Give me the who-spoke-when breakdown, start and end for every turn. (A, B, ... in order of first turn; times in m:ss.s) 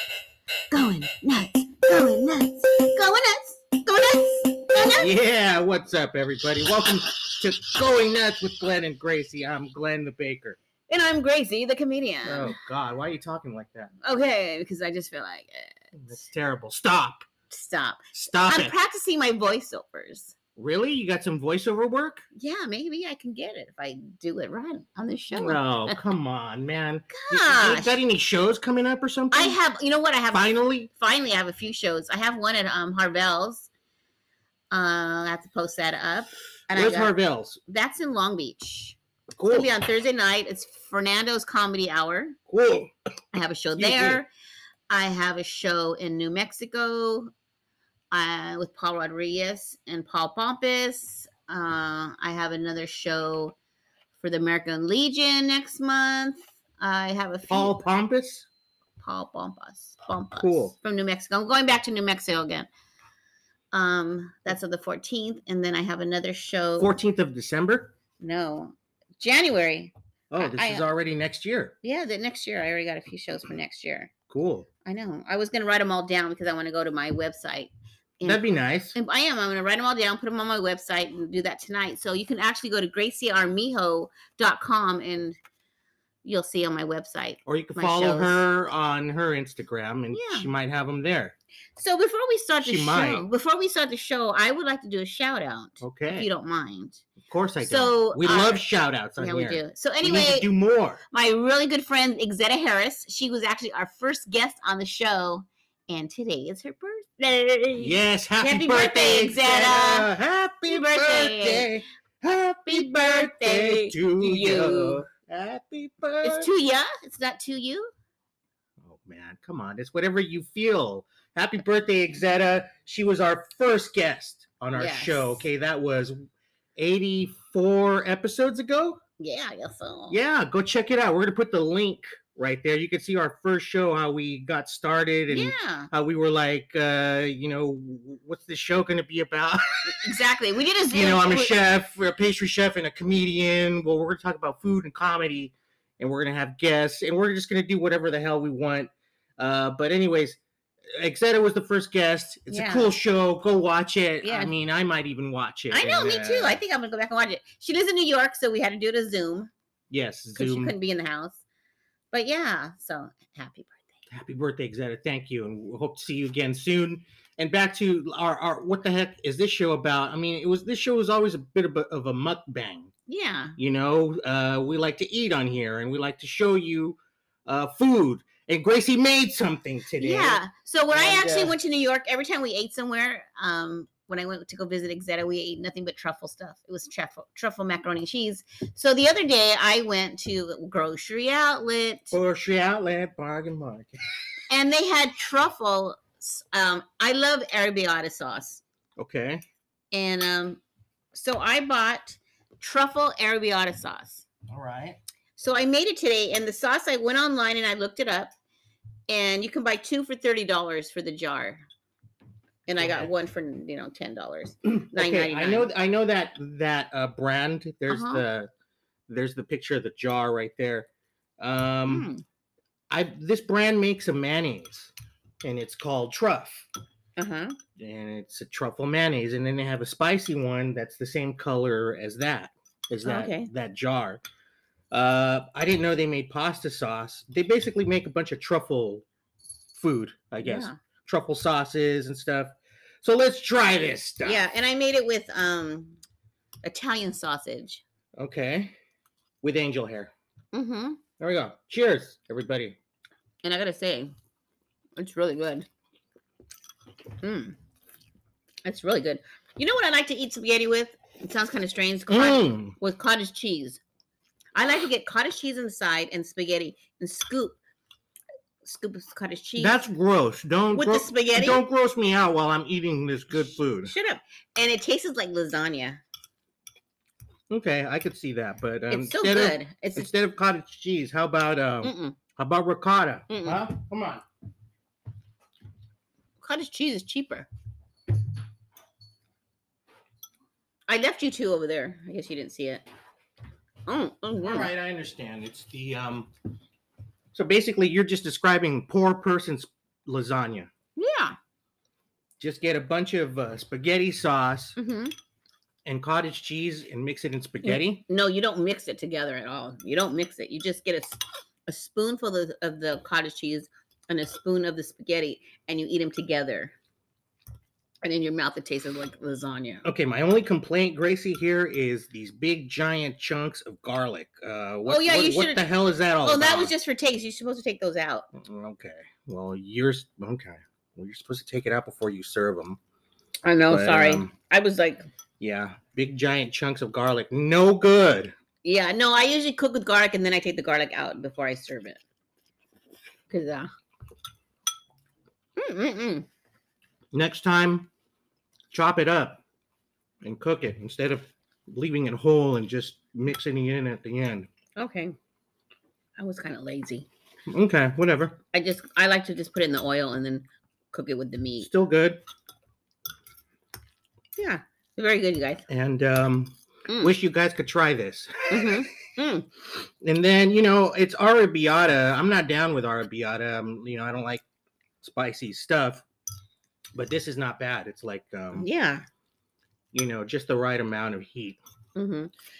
0:00.7-0:05.1 A
0:05.0-0:10.6 B
0:10.9-0:12.5 A
0:12.2-0:13.9 B
0:14.0-0:15.7 A
0:15.9-0:17.2 B
0:17.5-0:20.3 A
0:18.1-0:18.7 B
0:20.6-0:22.2 B
0:22.4-0:26.0 A
0:25.3-0:29.6 B
0:27.1-0:28.0 A
0:29.3-0:33.7 A
0:30.3-0:30.9 B
0:34.7-0:37.1 A
0:36.7-0:37.6 B
0:37.7-0:42.4 A
0:39.4-0:39.7 B
0:42.5-0:42.9 B
0:43.3-0:44.3 A
0:43.8-0:44.2 B
0:44.9-0:47.3 A
0:48.1-0:53.5 A
0:54.2-0:57.8 A
0:57.5-0:58.5 B
0:59.0-1:02.7 A
1:00.4-1:00.7 B
1:03.7-1:07.0 A
1:06.8-1:07.9 B
1:08.2-1:10.8 A
1:10.3-1:11.7 B
1:11.8-1:14.1 A
1:14.3-1:14.7 B
1:14.8-1:25.4 A
1:18.2-1:19.0 B
1:26.2-1:28.4 A
1:27.4-1:31.3 B
1:30.1-1:30.5 A
1:31.8-1:37.0 A
1:32.6-1:33.3 B
1:35.8-1:36.3 B
1:37.2-1:41.0 B
1:37.6-1:38.6 A
1:39.2-1:40.5 A
1:41.1-1:50.1 A
1:47.8-1:56.5 B
1:50.7-1:51.7 A
1:52.7-1:55.0 A
1:56.2-1:57.9 A
1:58.8-2:06.2 B
2:04.7-2:05.4 A
2:06.8-2:09.0 B
2:09.2-2:10.2 A
2:10.1-2:20.1 B
2:15.3-2:15.9 A
2:19.9-2:21.5 A
2:20.9-2:30.4 B
2:30.9-2:36.6 B
2:32.5-2:32.9 A
2:34.2-2:34.5 A
2:35.7-2:39.5 A
2:39.9-2:40.7 B
2:40.3-2:41.4 A
2:42.1-2:43.9 A
2:44.1-2:52.9 B
2:53.1-2:53.6 A
2:53.6-3:01.6 B
3:00.0-3:12.2 A
3:12.1-3:14.0 B
3:14.5-3:18.6 A
3:19.0-3:19.4 B
3:19.9-3:20.6 A
3:21.1-3:24.2 A
3:24.5-3:25.0 B
3:25.4-3:28.3 A
3:29.1-3:31.6 A
3:32.6-3:35.7 A
3:32.8-3:33.1 B
3:34.6-3:38.5 B
3:37.9-3:38.2 A
3:39.1-3:40.9 B
3:41.4-3:42.1 B
3:41.9-3:42.2 A
3:42.9-3:46.7 B
3:47.2-3:47.6 A
3:47.8-3:54.2 B
3:53.0-3:53.5 A
3:54.9-3:59.0 B
3:59.7-4:04.5 B
4:00.4-4:00.8 A
4:04.2-4:06.0 A
4:06.6-4:07.8 A
4:08.2-4:08.7 B
4:09.4-4:10.1 B
4:10.5-4:11.0 A
4:11.2-4:12.8 B
4:13.4-4:14.1 A
4:15.0-4:15.7 A
4:17.2-4:17.6 A
4:18.6-4:23.8 A
4:22.1-4:22.7 B
4:24.5-4:27.6 A
4:28.6-4:29.8 A
4:29.6-4:33.9 B
4:30.7-4:31.6 A
4:33.8-4:36.0 A
4:37.5-4:44.2 B
4:38.9-4:40.1 A
4:41.8-4:42.2 A
4:43.3-4:43.6 A
4:46.4-4:47.5 A
4:50.9-4:52.8 A
4:53.8-4:54.7 A
4:54.4-4:56.3 B
4:57.3-5:00.7 B
5:01.0-5:01.4 A
5:02.4-5:04.8 B
5:04.8-5:05.1 A
5:05.8-5:08.0 B
5:07.6-5:16.7 A
5:18.0-5:19.8 A
5:19.8-5:26.7 B
5:24.8-5:25.7 A
5:26.2-5:28.3 A
5:28.3-5:32.8 B
5:33.4-5:35.1 A
5:33.7-5:34.3 B
5:35.4-5:38.3 B
5:38.6-5:42.0 A
5:43.3-5:43.7 A
5:45.6-5:46.3 A
5:47.1-5:47.9 B
5:48.7-5:49.4 B
5:50.2-5:54.5 B
5:54.8-5:55.2 A
5:56.2-5:57.1 A
5:57.5-5:58.4 B
5:58.5-6:01.7 A
6:01.6-6:02.2 B
6:04.4-6:05.6 A
6:05.7-6:08.9 B
6:06.9-6:07.1 A
6:08.5-6:09.5 A
6:09.7-6:14.4 B
6:15.0-6:16.0 B
6:16.9-6:18.7 B
6:18.5-6:19.0 A
6:19.9-6:21.6 B
6:22.0-6:22.3 A